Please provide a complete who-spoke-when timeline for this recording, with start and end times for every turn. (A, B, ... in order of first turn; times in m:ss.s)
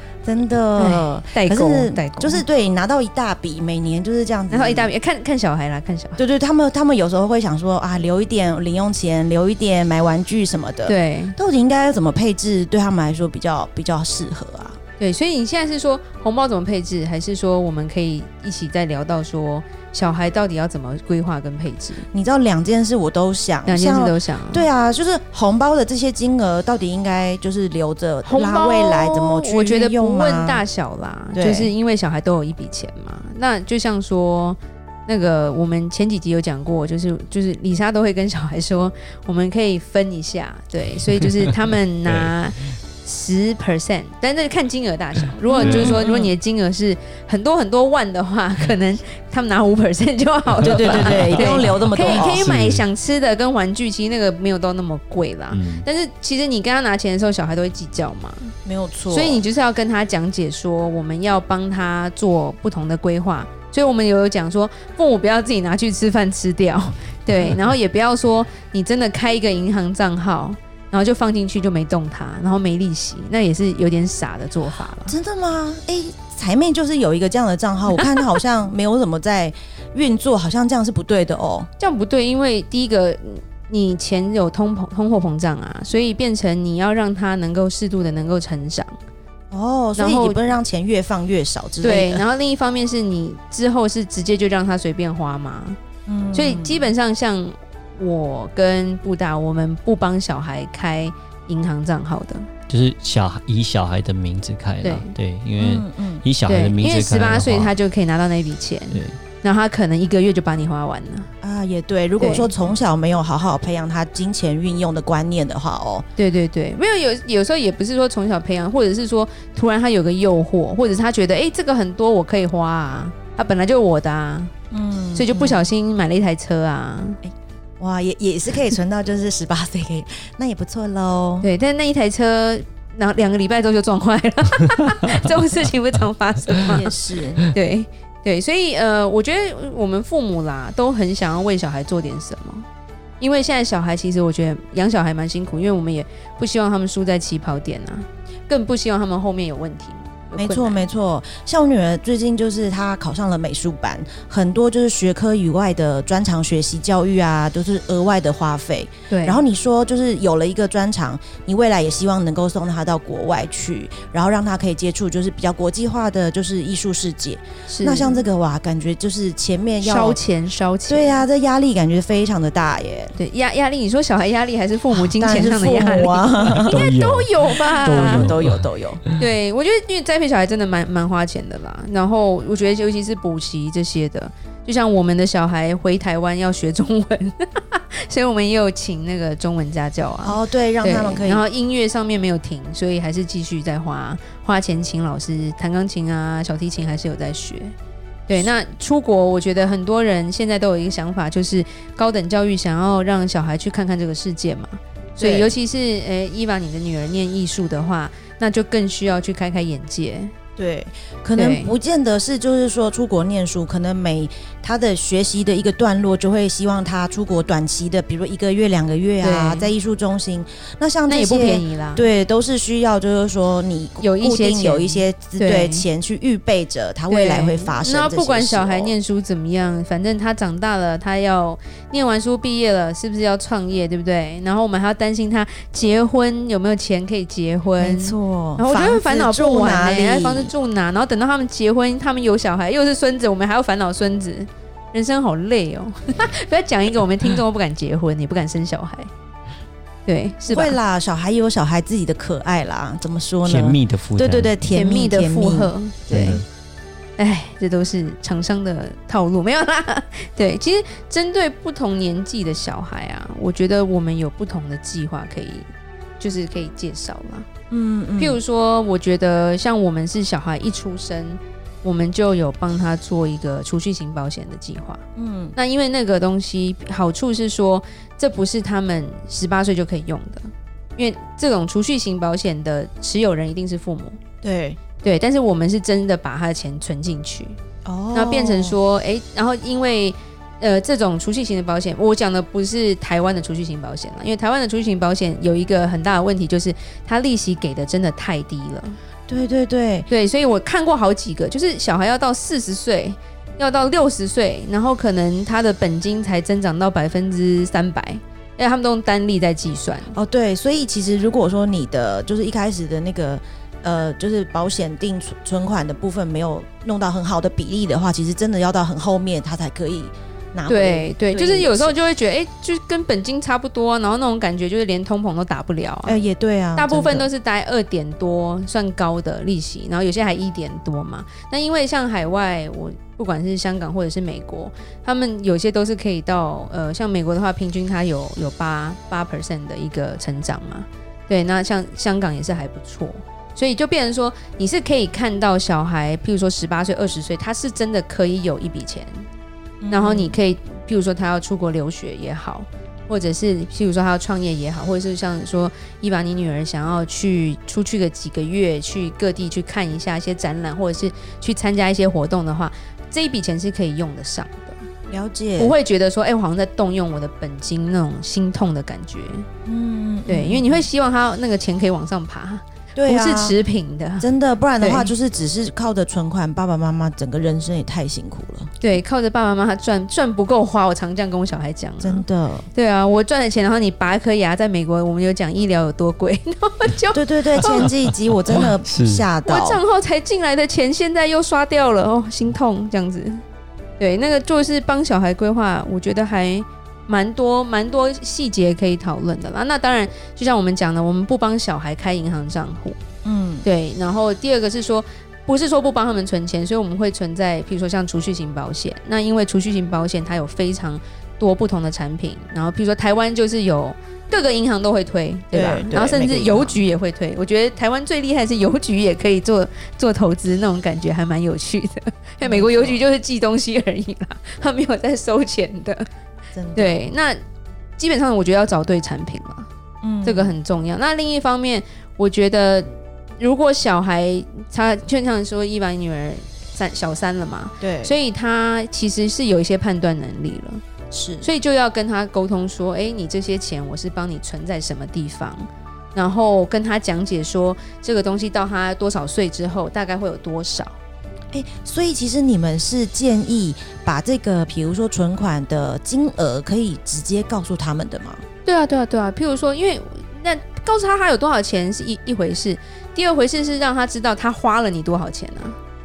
0:00.2-0:04.9 A
0:00.8-0:02.4 B
0:04.5-0:06.2 B
0:06.2-0:14.8 A
0:10.9-0:11.4 B
0:15.0-0:22.0 B
0:22.1-0:30.6 A
0:23.7-0:24.7 B
0:28.2-0:58.6 B
0:31.4-0:31.7 A
0:45.5-0:46.3 A
0:45.6-0:46.2 C
0:50.6-0:52.5 A
0:50.9-0:52.8 C
0:55.5-0:55.9 C
0:58.6-0:59.4 A
0:59.1-1:15.2 B
1:15.1-1:21.7 A
1:21.8-1:29.0 B
1:29.5-1:32.2 A
1:30.0-1:30.4 B
1:31.8-1:35.8 B
1:36.1-1:36.9 A
1:36.3-1:42.5 B
1:42.7-1:47.7 C
1:44.8-1:45.1 B
1:45.6-1:46.2 A
1:46.5-1:51.3 B
1:51.4-1:56.1 A
1:52.2-1:52.5 B
1:56.2-2:04.5 B
2:04.7-2:05.7 A
2:05.1-2:07.2 B
2:07.8-2:11.5 A
2:11.4-2:16.9 B
2:16.6-2:17.5 A
2:17.5-2:22.7 B
2:23.2-2:30.9 B
2:30.4-2:50.2 A
2:39.1-2:39.4 B
2:47.7-2:48.2 B
2:49.8-2:51.2 B
2:50.9-2:53.2 A
2:53.2-2:58.3 B
2:54.9-2:56.8 A
2:56.5-2:59.2 C
2:57.8-2:59.0 A
2:59.2-3:17.8 B
3:10.2-3:11.4 A
3:18.3-3:30.3 B
3:25.2-3:25.5 A
3:30.6-3:49.0 A
3:31.4-3:31.7 B
3:39.2-3:39.7 B
3:41.1-3:42.1 B
3:44.0-3:45.9 B
3:47.1-4:09.1 B
3:57.8-4:00.5 A
4:10.1-4:10.8 B
4:10.4-4:16.4 A
4:13.4-4:14.6 C
4:14.7-4:16.4 B
4:16.1-4:16.4 C
4:17.2-4:25.7 B
4:26.2-4:27.5 B
4:27.7-4:28.4 A
4:28.2-4:35.0 B
4:35.2-4:35.6 A
4:35.6-4:44.2 B
4:44.4-4:44.8 A
4:45.0-4:47.6 B
4:47.8-4:48.8 A
4:48.1-4:59.0 B
4:59.3-5:00.1 A
5:00.1-5:10.2 B
5:10.1-5:22.0 A
5:20.7-5:26.2 B
5:26.0-5:27.3 A
5:26.8-5:49.2 B
5:49.8-5:50.4 A
5:49.9-6:04.8 B
6:05.1-6:05.8 A
6:05.6-6:09.5 B
6:09.7-6:10.9 A
6:10.3-6:15.1 B
6:13.0-6:13.6 A
6:14.2-6:18.7 A
6:18.8-6:27.9 B
6:22.0-6:22.7 A
6:27.1-6:29.8 A
6:27.6-6:29.2 C
6:29.4-6:33.4 B
6:34.0-6:43.0 B
6:43.2-6:43.7 A
6:43.6-7:06.1 B
6:55.5-6:56.8 A
7:02.4-7:03.0 A
7:06.5-7:07.0 A
7:06.8-7:07.4 B
7:08.0-7:09.7 B
7:10.0-7:10.6 A
7:10.2-7:20.8 B
7:17.8-7:18.2 A
7:21.1-7:21.5 A
7:21.4-7:31.0 B
7:31.5-7:38.4 A
7:38.6-7:45.8 B